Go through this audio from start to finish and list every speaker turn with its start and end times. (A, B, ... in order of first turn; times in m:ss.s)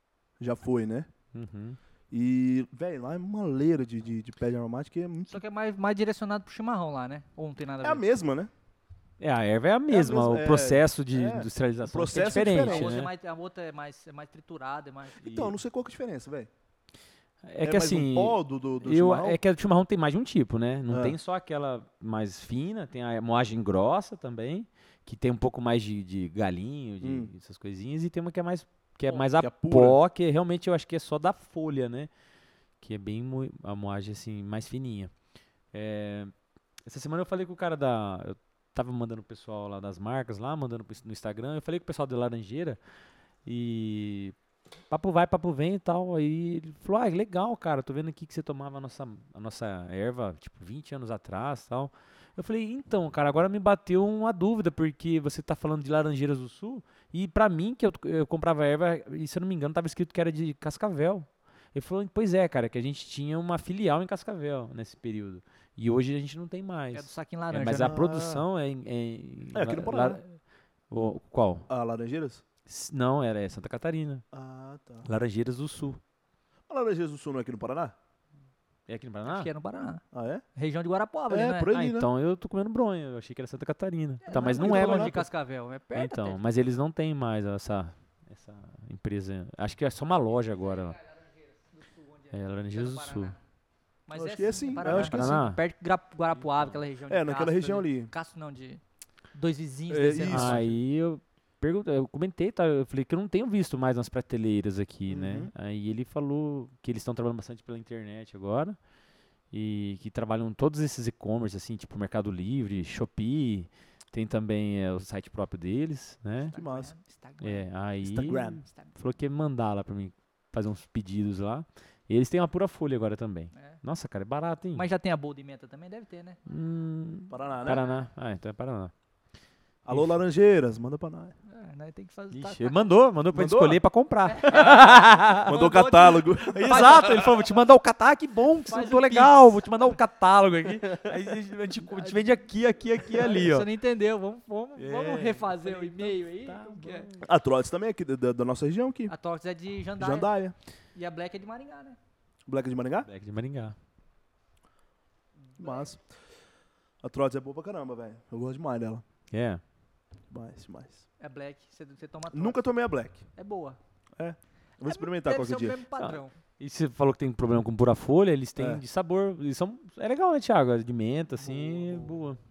0:00.4-0:01.1 A
0:01.3-0:01.8 B
0:02.1-0:05.4 A
0:05.3-0:08.0 C
0:07.8-0:08.5 A
0:09.2-0:13.1 B
0:09.9-0:13.0 A
0:12.1-0:15.2 C
0:15.2-0:16.5 A
0:15.2-0:15.5 B
0:17.4-0:32.1 B
0:17.6-0:19.4 A
0:20.9-0:21.2 A
0:27.0-0:27.3 A
0:29.3-0:30.0 A
0:32.8-0:35.1 B
0:35.7-0:36.3 B
0:36.8-0:42.8 B
0:43.4-0:44.3 B
0:44.9-1:10.3 B
1:06.9-1:08.0 C
1:07.7-1:08.4 A
1:09.5-1:10.2 A
1:10.9-1:11.7 B
1:11.7-1:12.4 A
1:12.7-1:14.2 B
1:14.3-1:15.1 A
1:15.0-1:16.0 B
1:16.7-1:17.9 A
1:18.9-1:19.5 B
1:19.2-1:20.0 C
1:20.1-1:20.4 A
1:20.5-1:21.7 C
1:21.3-1:22.1 A
1:21.7-1:25.3 B
1:24.2-1:26.4 C
1:24.3-1:25.2 A
1:25.9-1:31.0 B
1:31.0-1:33.4 C
1:32.3-1:33.4 B
1:34.1-1:38.8 C
1:34.1-1:35.4 A
1:34.8-1:35.6 B
1:36.4-1:36.8 B
1:37.1-1:38.1 A
1:39.3-1:40.6 C
1:39.9-1:40.8 A
1:40.3-1:48.8 B
1:45.1-1:45.5 A
1:49.5-1:56.5 B
1:56.4-1:57.6 C
1:56.5-1:56.9 A
1:57.4-2:04.8 B
1:58.0-1:58.6 A
1:58.6-1:58.9 C
2:03.5-2:03.8 C
2:04.7-2:06.4 C
2:06.4-2:08.9 B
2:07.3-2:07.8 A
2:09.8-2:11.3 A
2:09.9-2:10.2 B
2:11.5-2:12.9 C
2:12.3-2:15.6 B
2:13.3-2:13.8 A
2:14.3-2:17.3 C
2:15.4-2:17.3 A
2:16.4-2:23.7 B
2:18.7-2:19.5 C
2:21.9-2:22.3 C
2:23.1-2:27.1 C
2:24.8-2:27.3 B
2:27.2-2:29.1 A
2:29.1-2:30.3 C
2:30.0-2:30.5 A
2:30.9-2:32.0 C
2:32.5-2:33.1 A
2:33.1-2:33.7 B
2:35.4-2:35.9 C
2:35.6-2:36.0 A
2:37.0-2:39.0 A
2:39.3-2:39.6 B
2:40.3-2:41.0 A
2:41.2-2:42.7 C
2:42.3-2:43.2 A
2:43.3-2:43.8 C
2:44.2-2:45.8 A
2:44.8-2:46.3 C
2:46.0-2:52.4 B
2:48.6-2:48.8 A
2:51.4-2:52.2 C